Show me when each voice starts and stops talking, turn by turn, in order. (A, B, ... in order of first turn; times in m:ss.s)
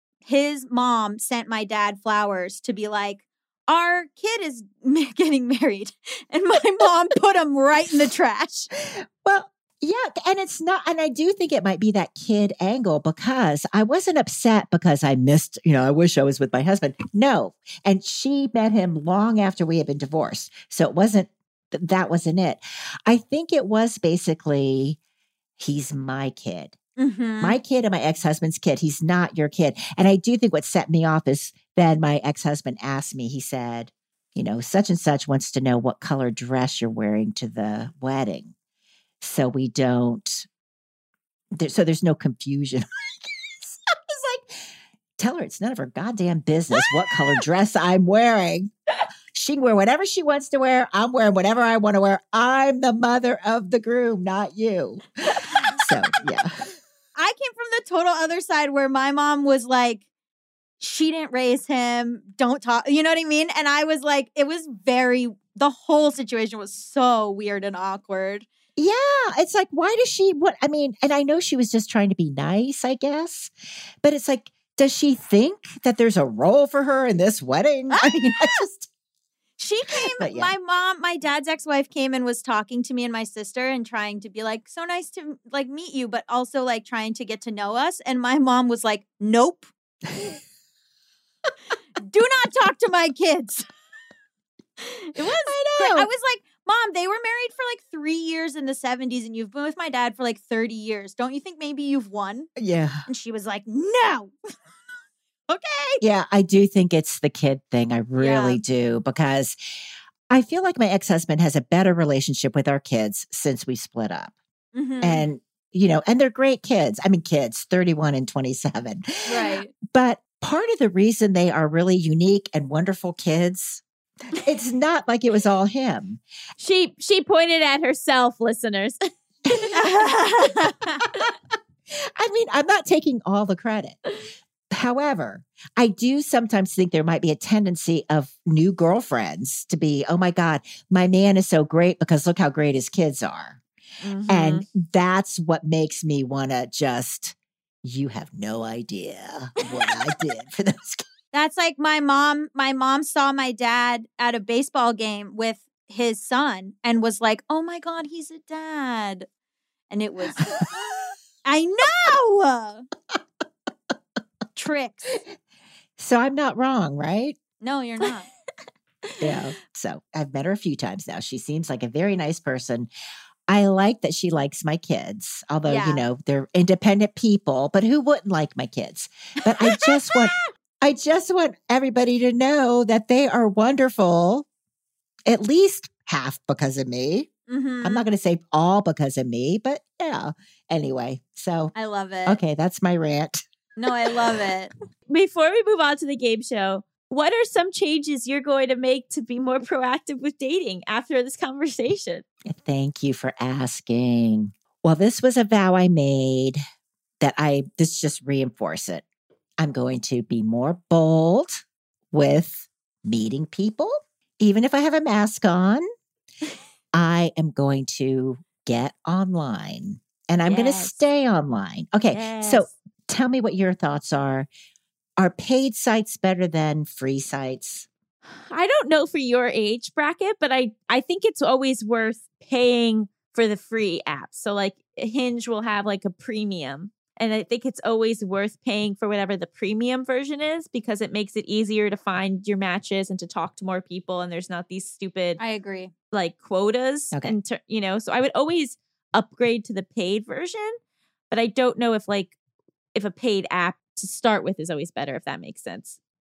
0:00.2-0:08.7 A
0:08.9-0:25.0 B
0:25.6-0:26.8 B
0:27.0-0:27.6 A
0:27.4-0:38.5 B
0:39.2-0:40.5 B
0:41.5-0:44.6 B
0:45.2-0:48.7 B
0:49.3-0:55.0 B
0:55.7-0:56.5 B
0:57.2-1:00.0 A
1:00.8-1:08.5 A
1:08.8-1:18.9 B
1:17.9-1:18.6 A
1:19.6-1:29.7 A
1:20.0-1:20.5 B
1:30.1-1:30.4 B
1:32.0-1:33.6 A
1:34.8-1:42.5 A
1:35.2-1:36.1 B
1:42.6-1:43.0 B
1:43.1-1:44.3 A
1:45.5-1:46.0 A
1:46.0-1:49.6 B
1:48.2-1:48.6 A
1:50.3-1:54.3 B
1:54.7-1:55.2 A
1:55.0-2:03.8 B
1:59.3-1:59.7 A
2:04.4-2:06.2 B
2:06.6-2:09.8 C
2:09.8-2:11.0 A
2:11.9-2:14.0 B
2:14.7-2:23.6 B
2:24.0-2:24.6 C
2:24.3-2:31.0 B
2:31.3-2:39.3 A
2:39.9-2:42.9 A
2:44.6-2:45.1 A
2:46.0-2:47.4 B
2:47.6-2:48.3 A
2:49.2-2:52.9 B
2:53.5-3:04.5 B
2:55.6-2:56.0 A
2:59.7-3:00.2 A
3:05.3-3:07.3 B
3:07.5-3:08.0 A
3:07.8-3:11.7 B
3:11.7-3:12.4 A
3:12.2-3:13.4 B
3:13.8-3:14.7 A
3:15.1-3:22.2 C
3:22.4-3:26.6 B
3:27.2-3:29.0 B
3:29.6-3:35.8 B
3:36.9-3:44.5 B
3:40.4-3:41.0 C
3:42.1-3:42.7 C
3:45.2-3:47.9 B
3:48.3-4:05.4 C
4:05.4-4:05.9 A
4:06.1-4:10.8 C
4:11.3-4:12.4 C
4:12.9-4:16.0 C